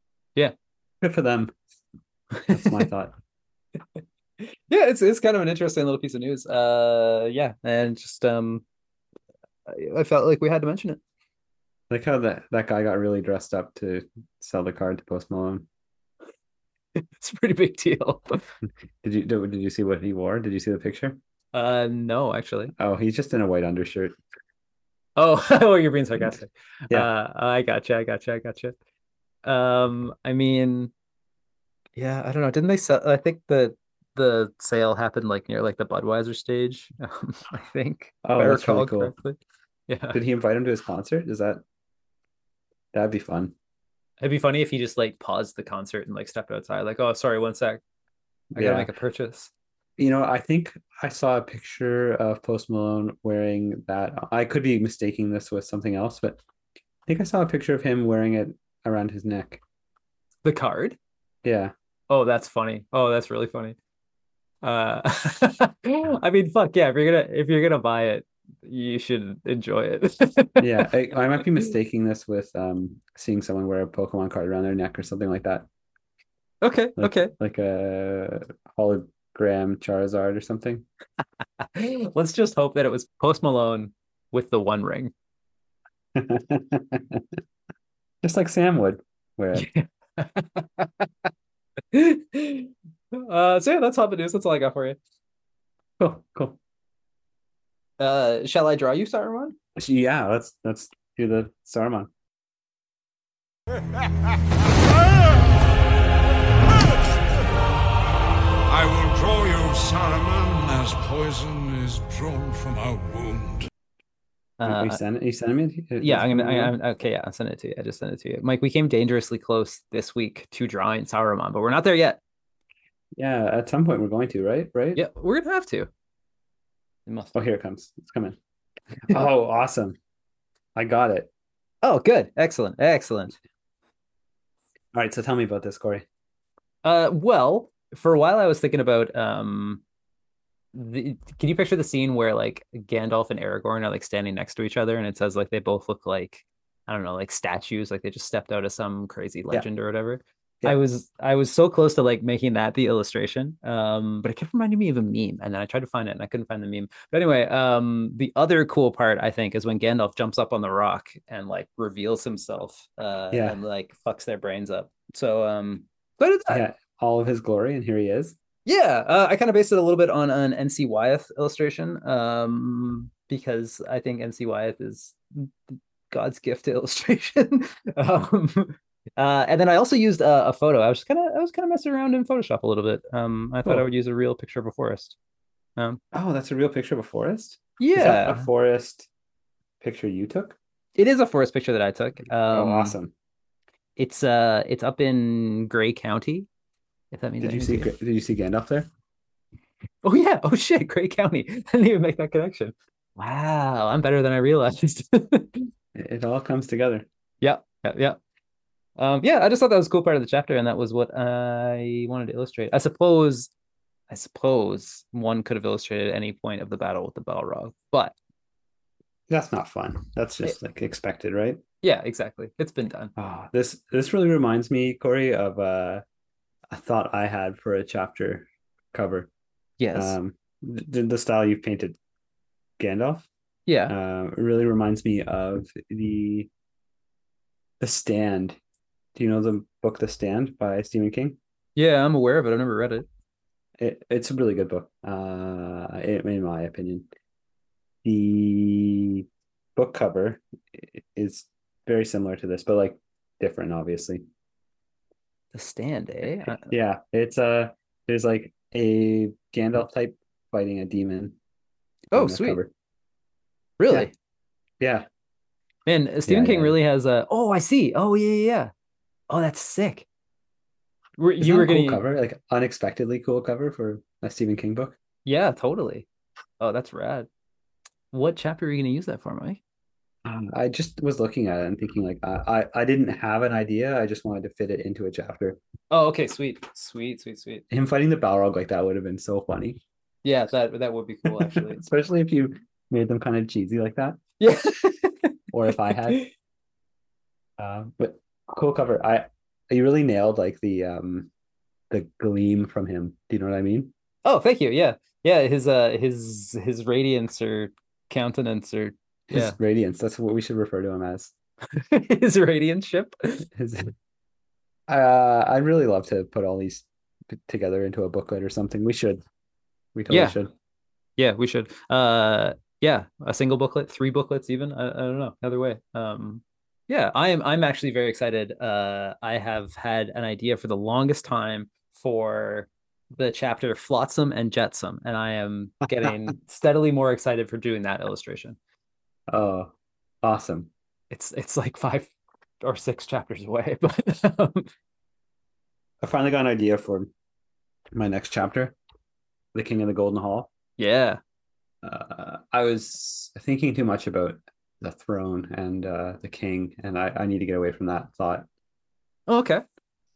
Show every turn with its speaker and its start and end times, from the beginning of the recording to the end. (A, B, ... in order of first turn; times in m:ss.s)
0:01.0-0:01.6 A
0:02.4-0:02.8 B
0:02.5-0:03.1 A
0:04.4-0:08.6 B
0:09.7-0:11.0 B
0:11.9-0:15.7 A
0:17.2-0:18.4 B
0:19.0-0:21.2 A
0:21.5-0:22.7 B
0:22.8-0:24.2 A
0:25.2-0:28.8 B
0:29.4-0:30.9 B
0:32.0-0:40.2 B
0:38.2-0:39.1 A
0:40.1-0:41.6 A
0:42.9-0:43.5 A
0:44.2-0:47.8 B
0:48.6-0:48.9 A
0:48.6-0:49.5 B
0:50.0-0:56.4 A
0:57.1-0:59.6 A
1:00.4-1:01.0 B
1:01.4-1:01.7 A
1:02.1-1:03.8 B
1:04.6-1:10.9 B
1:10.6-1:15.7 A
1:16.6-1:17.3 B
1:17.0-1:20.9 A
1:21.6-1:25.1 B
1:26.2-1:27.2 A
1:28.2-1:29.7 A
1:29.6-1:31.3 B
1:31.9-1:35.0 B
1:36.0-1:36.6 A
1:38.0-1:39.6 B
1:39.8-1:42.1 A
1:48.7-1:53.7 C
1:54.6-1:55.0 B
1:54.6-1:56.8 A
1:56.0-2:02.2 B
2:03.2-2:05.0 A
2:05.0-2:05.9 B
2:07.1-2:07.3 B
2:07.3-2:08.4 A
2:09.1-2:10.0 A
2:10.8-2:11.3 A
2:11.8-2:13.4 B
2:14.9-2:16.0 A
2:16.8-2:19.8 B
2:20.7-2:46.6 B
2:43.3-2:43.6 A
2:46.5-2:48.4 A
2:48.7-3:05.2 B
3:06.1-3:09.1 A
3:07.8-3:08.5 B
3:09.8-3:10.6 A
3:11.0-3:13.0 B
3:12.5-3:13.1 A
3:14.0-3:16.5 B
3:17.1-3:17.9 B
3:17.4-3:18.9 A
3:20.0-3:25.7 B
3:26.0-3:27.1 A
3:27.4-3:28.2 B
3:29.0-3:33.5 B
3:34.1-3:38.2 B
3:39.3-3:41.6 A
3:41.8-3:43.1 B
3:43.2-3:46.0 A
3:46.7-3:49.3 A
3:49.8-3:50.2 B
3:49.9-3:52.0 A
3:52.8-3:53.3 A
3:53.7-3:53.9 B
3:53.9-3:56.5 A
3:57.8-3:58.6 A
3:59.2-4:01.4 A
4:01.8-4:03.1 B
4:03.8-4:07.1 A
4:08.0-4:09.2 A
4:09.8-4:14.3 A
4:15.5-4:16.7 B
4:16.5-4:21.4 A
4:22.1-4:22.6 B
4:22.1-4:22.7 A
4:23.8-4:24.1 B
4:24.8-4:25.1 A
4:25.9-4:28.7 B
4:26.3-4:26.8 A
4:29.3-4:30.1 B
4:31.2-4:32.0 B
4:31.4-4:35.0 A
4:35.3-4:36.1 B
4:36.6-4:37.3 B
4:38.1-4:39.6 B
4:40.2-4:45.6 A
4:45.9-4:47.6 B
4:47.7-4:49.8 A
4:50.2-4:51.8 B
4:51.3-4:54.2 A
4:54.4-4:55.3 B
4:55.5-4:56.2 A
4:55.9-4:56.3 B
4:57.6-5:01.3 A
5:01.9-5:03.9 A
5:04.2-5:09.6 B
5:09.3-5:11.3 A
5:11.7-5:13.4 B
5:13.5-5:13.9 A
5:14.9-5:19.2 A
5:20.0-5:20.5 A
5:20.1-5:20.4 B
5:21.2-5:38.6 B
5:39.3-5:39.7 A
5:40.2-5:40.7 A
5:41.1-5:44.7 B
5:46.0-5:47.1 A
5:47.9-5:48.8 A
5:49.5-5:50.5 A
5:50.8-5:51.2 B
5:51.8-5:58.5 A
5:59.3-5:59.6 B